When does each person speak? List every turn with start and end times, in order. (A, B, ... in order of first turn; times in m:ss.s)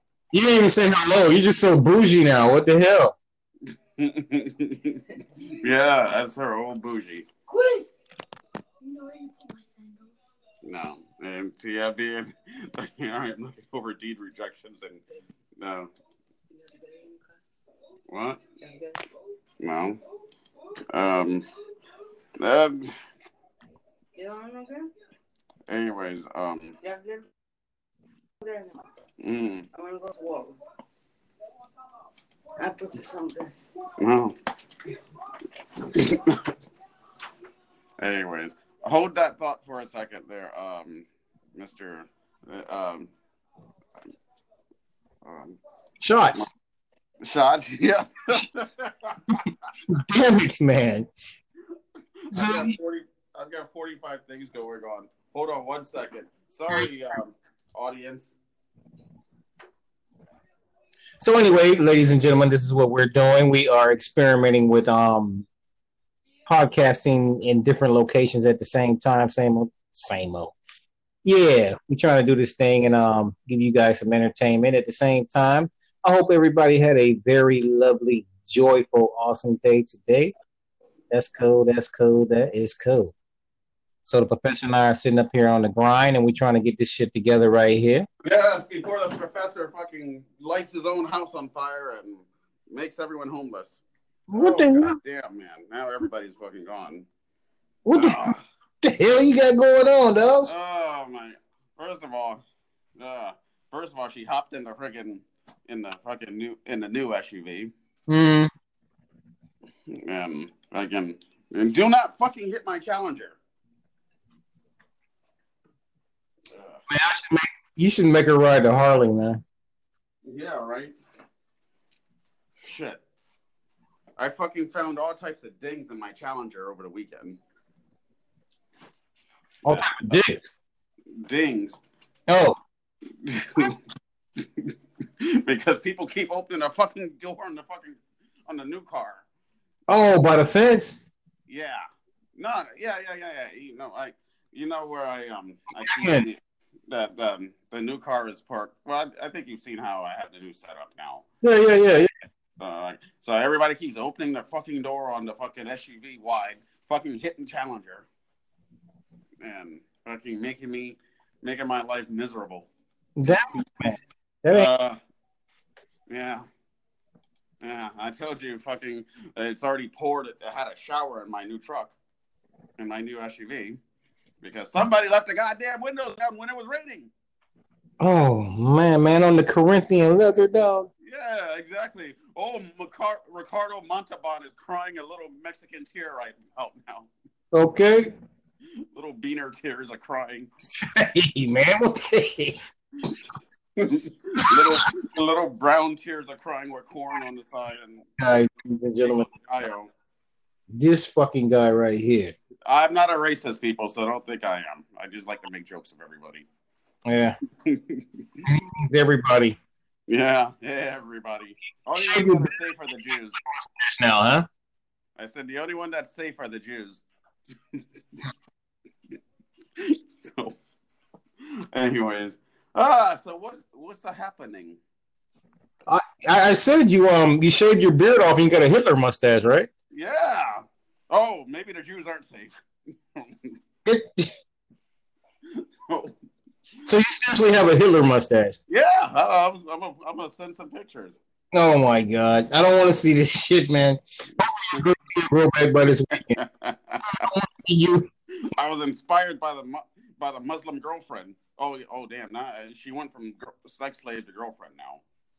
0:00.3-0:03.1 A
0:04.0-0:07.3 B
0:07.5-0:07.9 C
0:08.8-0:10.1 C
0:10.6-0:15.0 B
0:15.6-0:15.9 B
0:16.5-0:17.4 C
0:18.1-0:18.4 B
0:18.6-0:19.0 C
0:19.6-0:20.0 B
0:20.9-0:21.4 B
0:22.4-0:22.9 B
0:24.2-0:24.9 C
0:25.7-0:26.8 B
0:26.8-0:27.3 C
0:28.4-0:28.8 C
0:29.2-0:29.7 B
0:29.7-0:30.6 C
0:32.6-0:33.5 C
0:34.0-0:34.3 B
0:35.9-0:36.4 B
0:38.0-0:43.1 B
0:45.2-0:45.6 B
0:46.0-0:46.5 A
0:47.2-0:49.5 B
0:49.9-0:51.1 A
0:52.3-0:58.4 B
0:52.3-0:52.8 A
1:01.2-1:05.4 A
1:06.4-1:10.5 A
1:11.2-1:20.3 A
1:21.1-1:23.1 A
1:24.0-1:28.1 A
1:28.2-1:33.8 B
1:34.3-1:35.0 A
1:34.3-1:37.1 B
1:37.8-1:38.3 A
1:37.9-1:38.4 B
1:38.8-1:40.5 A
1:40.4-1:42.4 B
1:43.0-1:47.7 B
1:48.1-1:48.5 A
1:49.9-1:53.4 B
1:56.5-1:56.8 B
1:56.9-1:59.4 A
2:00.2-2:00.9 B
2:02.6-2:03.0 B
2:04.2-2:07.4 B
2:09.6-2:10.2 B
2:09.6-2:10.4 A
2:11.2-2:11.8 B
2:12.3-2:12.6 A
2:13.2-2:13.8 B
2:15.4-2:19.2 B
2:19.9-2:21.0 A
2:21.5-2:21.8 B
2:22.3-2:31.2 B
2:25.8-2:26.3 A
2:31.4-2:32.1 A
2:32.6-2:38.1 B
2:39.4-2:42.7 B
2:43.2-2:44.7 A
2:44.5-2:45.0 B
2:46.1-2:46.4 B
2:47.6-2:51.9 B
2:52.8-2:53.8 B
2:54.4-2:57.1 B
2:58.0-3:00.9 A
3:01.0-3:07.1 B
3:07.5-3:08.1 A
3:08.9-3:10.5 B
3:10.8-3:12.6 A
3:13.8-3:18.1 B
3:18.2-3:19.3 A
3:19.0-3:19.9 B
3:20.7-3:22.3 A
3:22.6-3:26.4 B
3:27.0-3:27.4 A
3:27.6-3:28.0 B
3:28.4-3:29.6 A
3:30.1-3:33.4 B
3:31.9-3:32.5 A
3:33.6-3:34.5 A
3:35.2-3:37.0 B
3:39.8-3:40.5 B
3:41.7-3:44.8 B
3:45.9-3:49.7 A
3:49.9-3:52.5 B
3:53.2-3:53.5 B
3:53.8-3:54.3 A
3:55.7-3:56.1 B
3:56.8-3:58.6 A
3:58.7-4:01.2 B
4:01.5-4:06.4 A
4:06.3-4:07.0 B
4:07.0-4:08.1 A
4:08.5-4:15.0 B